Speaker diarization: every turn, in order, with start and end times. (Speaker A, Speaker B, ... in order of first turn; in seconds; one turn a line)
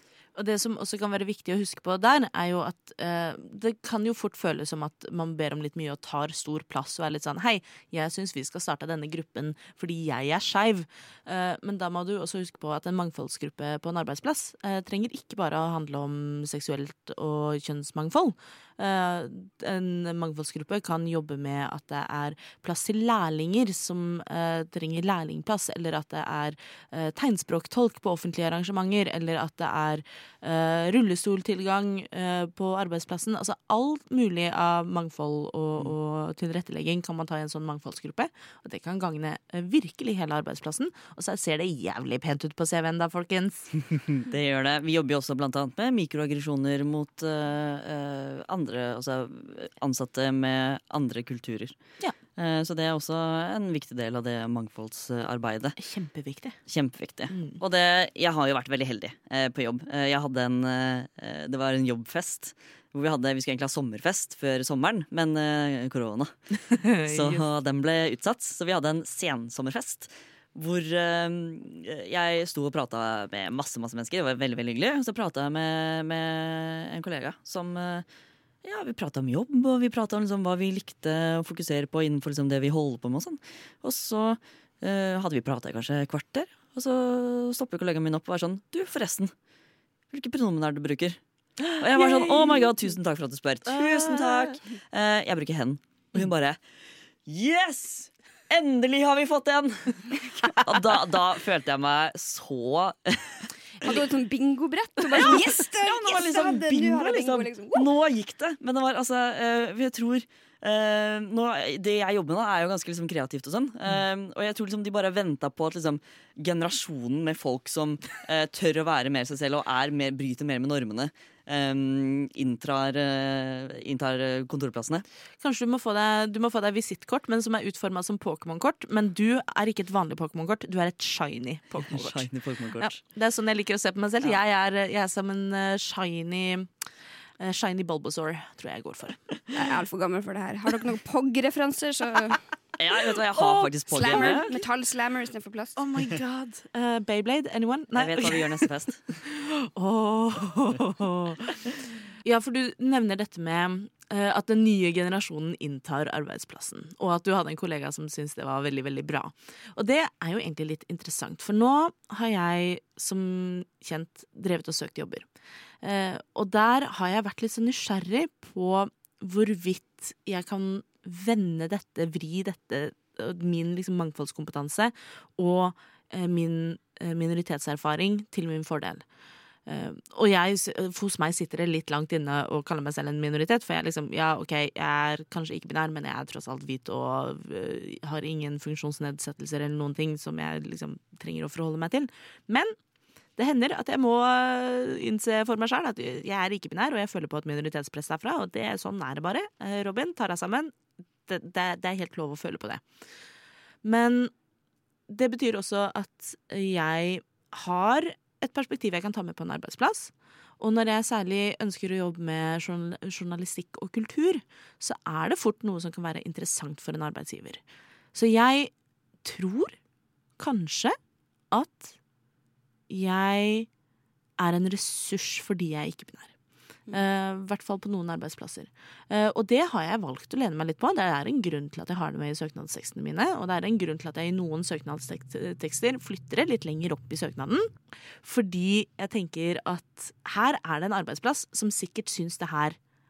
Speaker A: 0.4-43.8
Speaker B: 43.9-51.8
Speaker B: 52.4-55.8
Speaker A: 55.8-56.6
Speaker B: 56.7-66.3
Speaker A: 57.3-57.6
Speaker A: 66.7-67.5
Speaker B: 67.0-78.1
Speaker B: 78.6-89.3
Speaker B: 90.1-91.2
Speaker A: 91.6-92.8
Speaker B: 91.8-96.6
Speaker A: 93.7-94.6
Speaker B: 97.3-103.5
Speaker C: 103.8-107.9
Speaker B: 105.1-125.0
Speaker A: 125.4-136.7
Speaker B: 131.9-133.0
Speaker A: 137.4-139.2
Speaker C: 139.5-142.4
Speaker B: 142.8-144.5
Speaker A: 143.5-144.4
Speaker C: 143.8-145.8
Speaker A: 145.8-148.5
Speaker B: 147.9-149.2
Speaker A: 149.2-165.2
Speaker A: 165.8-179.0
Speaker A: 179.7-192.8
Speaker A: 193.4-200.8
Speaker A: 201.3-202.8
Speaker A: 203.8-204.3
Speaker A: 205.1-217.6
Speaker A: 218.1-218.7
Speaker A: 219.2-219.8
Speaker A: 220.4-221.0
Speaker A: 221.5-221.9
Speaker A: 222.9-223.7
Speaker A: 224.4-226.3
Speaker A: 226.9-242.8